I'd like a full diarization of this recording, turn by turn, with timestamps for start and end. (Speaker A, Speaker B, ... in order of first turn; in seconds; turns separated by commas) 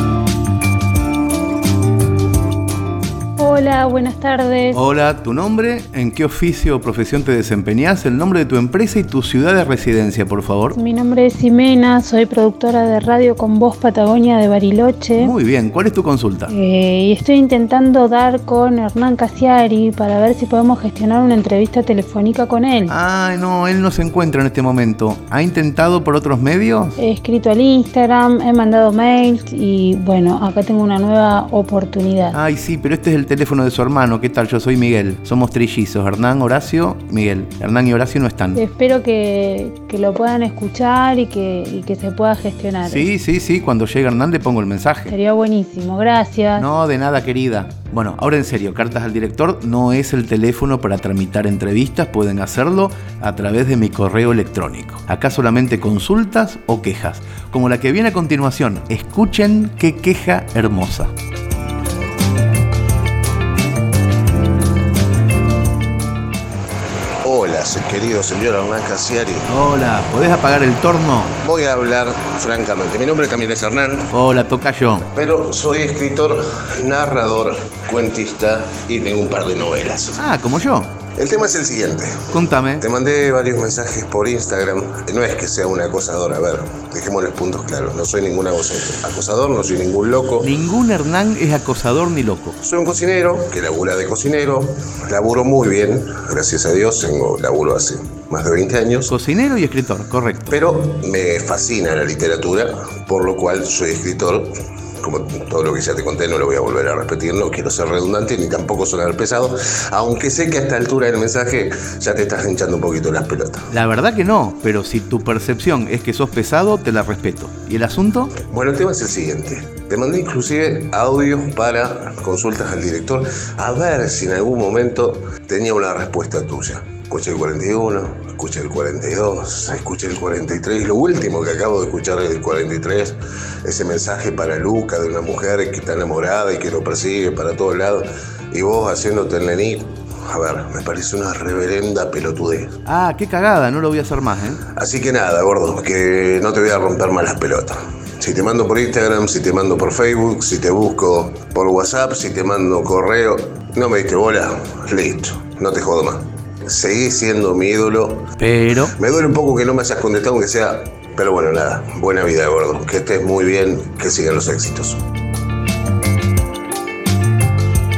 Speaker A: 3.4-4.8, Speaker B: 4.7-10.8, Speaker A: 10.8-15.3, Speaker B: 15.2-16.5, Speaker A: 16.5-22.9, Speaker B: 22.9-27.0, Speaker A: 27.0-32.4, Speaker B: 32.3-38.6, Speaker A: 38.5-43.1, Speaker B: 42.8-45.2, Speaker A: 45.1-46.7, Speaker B: 46.5-61.1, Speaker C: 67.2-69.5, Speaker B: 69.5-71.4, Speaker C: 71.4-74.1, Speaker B: 74.1-75.1, Speaker C: 75.1-80.2, Speaker B: 80.2-81.0, Speaker C: 81.2-90.5, Speaker B: 82.3-82.8, Speaker B: 90.4-92.6, Speaker C: 92.6-99.1, Speaker B: 99.1-100.5, Speaker C: 100.5-104.5, Speaker C: 105.0-113.7, Speaker B: 113.7-118.3, Speaker C: 118.5-142.8, Speaker B: 142.9-144.6, Speaker C: 144.8-158.3, Speaker B: 158.4-158.9, Speaker C: 159.0-165.0